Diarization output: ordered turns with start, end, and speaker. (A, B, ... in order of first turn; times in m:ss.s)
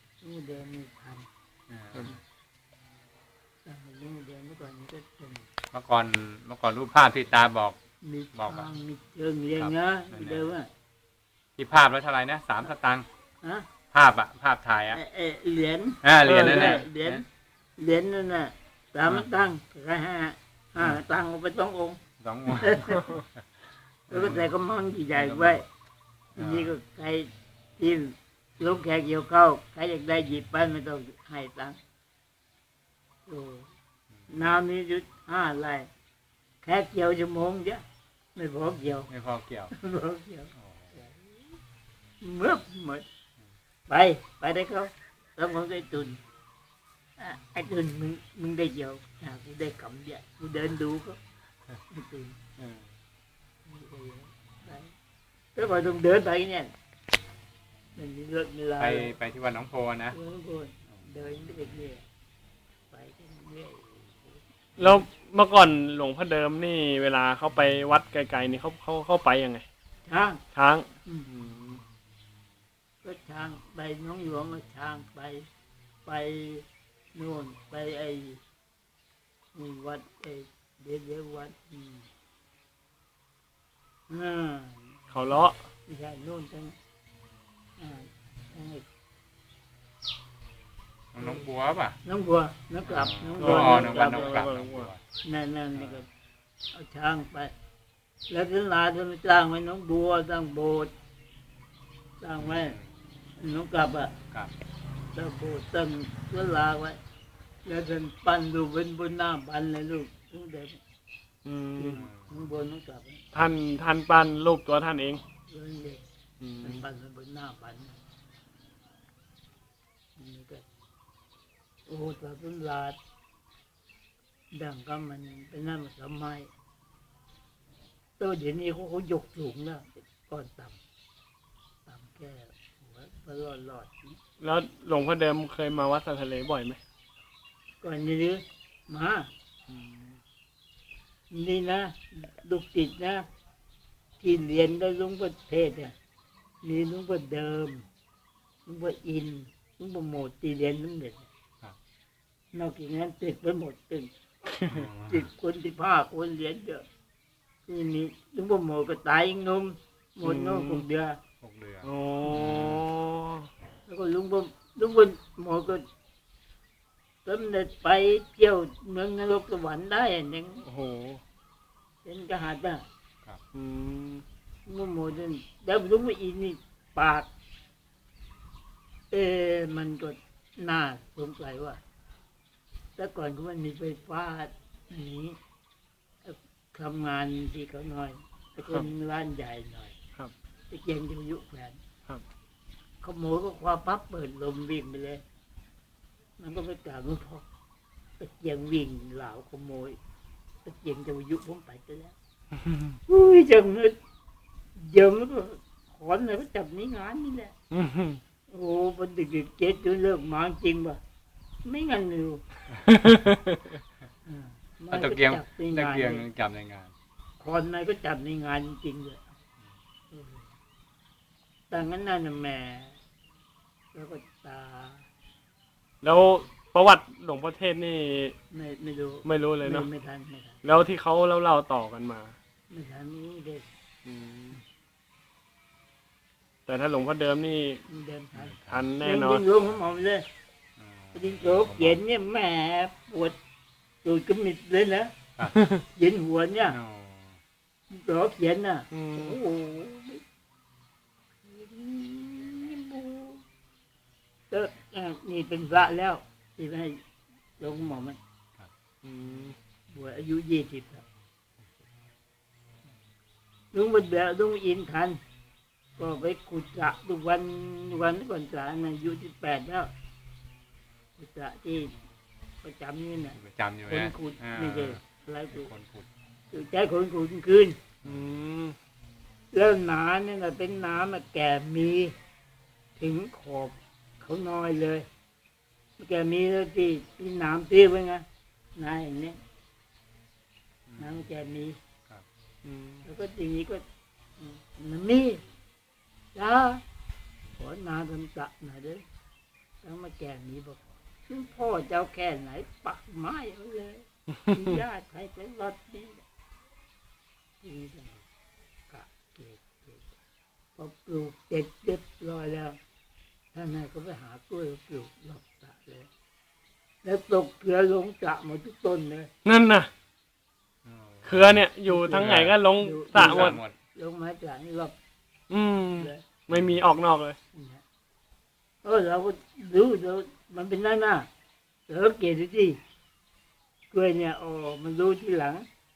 0:00.2-0:01.3 A
0:01.7-0:02.2 B
0:03.6-0:05.5 A
0:05.7-0:07.8 B
0:08.0-0:10.7 A
0:08.3-0:08.7 B
0:09.6-0:10.5 B
0:11.6-0:13.1 B
0:13.4-0:13.7 A
0:13.9-0:15.0 B
0:14.9-0:17.2 A
0:16.0-0:17.2 B
0:16.2-0:16.8 C
0:17.8-0:22.0 A
0:22.2-0:23.4 B
0:22.5-0:23.1 A
0:24.1-0:24.5 B
0:24.1-0:25.6 A
0:25.1-0:25.6 B
0:26.3-0:26.8 B
0:26.4-0:31.8 A
0:33.2-0:33.7 A
0:34.1-0:34.6 B
0:34.3-0:35.9 A
0:36.6-0:39.1 A
0:39.1-0:39.7 B
0:39.7-0:41.2 A
0:40.5-0:41.0 B
0:42.2-0:43.0 A
0:43.9-0:46.2 A
0:47.2-0:51.2 A
0:51.9-0:52.4 A
0:52.6-0:53.0 B
0:53.6-0:54.9 A
0:55.5-0:56.7 A
0:57.9-0:59.1 A
0:58.8-1:00.2 B
1:00.1-1:02.0 A
1:02.9-1:04.4 A
1:04.8-1:09.6 C
1:10.0-1:10.4 A
1:10.5-1:11.8 C
1:13.0-1:15.5 A
1:16.0-1:18.4 A
1:19.5-1:22.1 A
1:24.1-1:25.0 A
1:25.1-1:25.6 C
1:25.8-1:26.8 A
1:27.8-1:28.8 A
1:31.1-1:32.0 B
1:31.2-1:31.4 A
1:32.0-1:34.5 A
1:32.8-1:35.0 B
1:33.4-1:34.9 C
1:35.2-1:36.1 A
1:35.7-1:36.0 B
1:36.7-1:37.5 A
1:38.3-1:40.9 A
1:42.2-1:42.8 A
1:42.4-1:42.9 B
1:43.4-1:44.1 A
1:45.1-1:47.0 A
1:47.6-1:50.8 A
1:51.4-1:52.1 C
1:51.8-1:53.2 A
1:51.9-1:52.4 B
1:53.3-1:55.2 C
1:55.5-1:56.0 A
1:56.4-1:56.8 C
1:56.6-1:58.0 A
2:00.2-2:00.6 A
2:01.9-2:03.0 A
2:04.5-2:06.5 A
2:08.2-2:10.8 A
2:11.8-2:14.2 A
2:14.4-2:16.8 C
2:17.8-2:19.3 A
2:19.7-2:20.2 C
2:21.3-2:23.2 A
2:24.2-2:25.9 A
2:26.6-2:27.8 A
2:28.6-2:31.3 A
2:32.5-2:34.1 A
2:34.6-2:35.3 B
2:35.1-2:36.8 A
2:37.6-2:41.2 A
2:40.2-2:40.8 C
2:41.4-2:42.8 B
2:41.8-2:43.5 C
2:43.8-2:45.8 A
2:47.2-2:50.6 A
2:50.6-2:51.2 C
2:52.0-2:52.8 A
2:53.5-2:54.2 C
2:54.6-2:57.3 A
2:59.1-3:01.8 A
3:03.0-3:05.4 A
3:06.2-3:10.0 A
3:10.7-3:11.8 A
3:13.0-3:15.2 A
3:16.4-3:17.4 A
3:18.2-3:20.0 A
3:20.6-3:22.1 A
3:23.1-3:24.0 A
3:24.7-3:27.6 A
3:27.7-3:28.2 C
3:28.5-3:31.0 A
3:31.6-3:32.4 A
3:32.9-3:33.6 C
3:34.2-3:36.2 A
3:34.9-3:36.9 B
3:37.4-3:39.2 A
3:40.1-3:40.5 A
3:41.7-3:43.0 A
3:43.9-3:45.0 A
3:46.0-3:48.3 C
3:48.5-3:50.6 A
3:49.2-3:49.9 C
3:50.6-3:52.4 C
3:52.7-3:53.6 A
3:54.0-3:54.6 C
3:56.7-3:57.8 C
3:57.9-4:00.2 A
3:58.3-3:58.9 B
3:58.7-3:59.4 C
4:00.8-4:02.0 B
4:01.1-4:03.4 A
4:04.0-4:05.2 A
4:05.9-4:06.8 A
4:06.6-4:07.4 B
4:07.9-4:10.2 A
4:08.9-4:09.4 C
4:11.4-4:13.4 A
4:14.5-4:17.0 A
4:17.6-4:18.2 A
4:19.0-4:19.6 C
4:19.9-4:21.0 A
4:23.7-4:25.2 A
4:26.0-4:29.9 A
4:31.2-4:32.0 A
4:32.6-4:35.7 A
4:33.4-4:35.0 B
4:35.5-4:36.1 B
4:36.5-4:37.8 A
4:38.0-4:38.3 B
4:38.0-4:38.8 C
4:39.5-4:42.1 A
4:43.0-4:45.1 A
4:46.0-4:49.4 A
4:50.9-4:51.3 B
4:51.0-4:51.8 A
4:52.6-4:53.0 C
4:53.0-4:53.8 A
4:54.4-4:55.4 A
4:56.3-4:56.8 A
4:57.6-4:59.0 A
4:59.8-5:06.2 A
5:04.5-5:04.8 C
5:07.6-5:08.2 A
5:08.9-5:10.1 A
5:10.8-5:12.8 A
5:13.5-5:16.1 A
5:17.0-5:19.3 A
5:19.4-5:19.9 C
5:20.8-5:21.6 B
5:21.2-5:23.6 C
5:21.9-5:24.9 A
5:22.2-5:22.5 B
5:23.1-5:23.8 B
5:25.5-5:27.4 C
5:26.0-5:26.2 A
5:26.5-5:26.8 B
5:27.5-5:27.8 A
5:28.8-5:31.3 A
5:31.9-5:32.8 A
5:33.9-5:35.7 A